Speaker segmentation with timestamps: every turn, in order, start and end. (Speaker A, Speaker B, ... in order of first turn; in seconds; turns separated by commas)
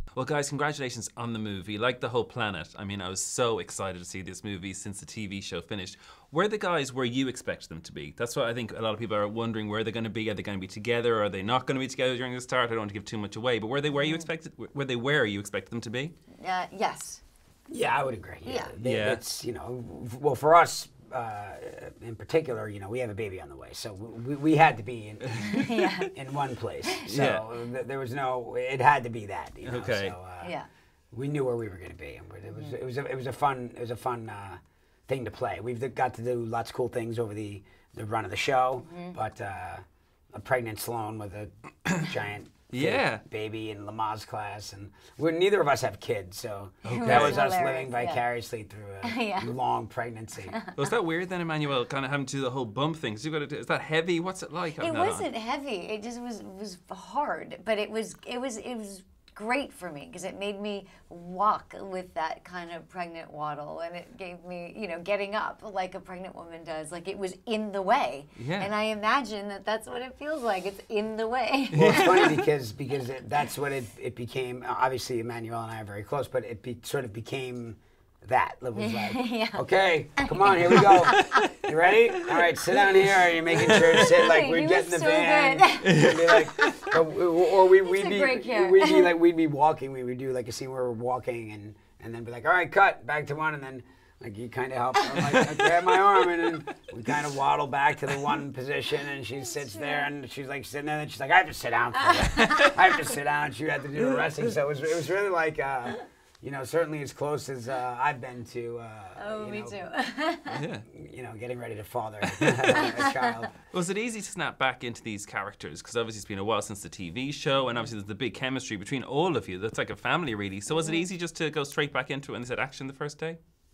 Speaker A: 0.1-16.1, Speaker B: 13.9-14.3, Speaker B: 16.4-17.2, Speaker C: 17.7-30.6, Speaker B: 18.4-18.7, Speaker A: 18.8-19.2, Speaker A: 25.3-26.0, Speaker B: 25.4-26.1, Speaker A: 27.1-27.5, Speaker A: 29.6-30.1, Speaker B: 30.4-30.7, Speaker C: 31.1-50.6, Speaker B: 32.5-32.7, Speaker B: 38.8-39.2, Speaker A: 42.7-43.2, Speaker A: 46.8-47.4, Speaker B: 46.9-48.2, Speaker B: 49.0-49.6, Speaker B: 50.5-50.9, Speaker A: 50.8-55.3, Speaker B: 54.8-72.4, Speaker A: 68.4-68.7, Speaker A: 71.7-72.3, Speaker C: 71.7-109.8, Speaker B: 78.7-81.5, Speaker A: 81.1-81.4, Speaker A: 82.3-82.7, Speaker B: 83.5-87.0, Speaker A: 83.6-84.0, Speaker A: 85.8-86.5, Speaker B: 87.6-89.1, Speaker A: 95.4-95.7, Speaker B: 99.4-100.1, Speaker B: 101.9-102.8, Speaker A: 102.4-102.7, Speaker B: 109.2-110.6, Speaker A: 110.5-110.8, Speaker C: 110.9-113.5, Speaker A: 112.3-112.9, Speaker B: 112.7-113.4, Speaker A: 113.7-123.4, Speaker B: 117.6-117.9, Speaker B: 120.7-121.0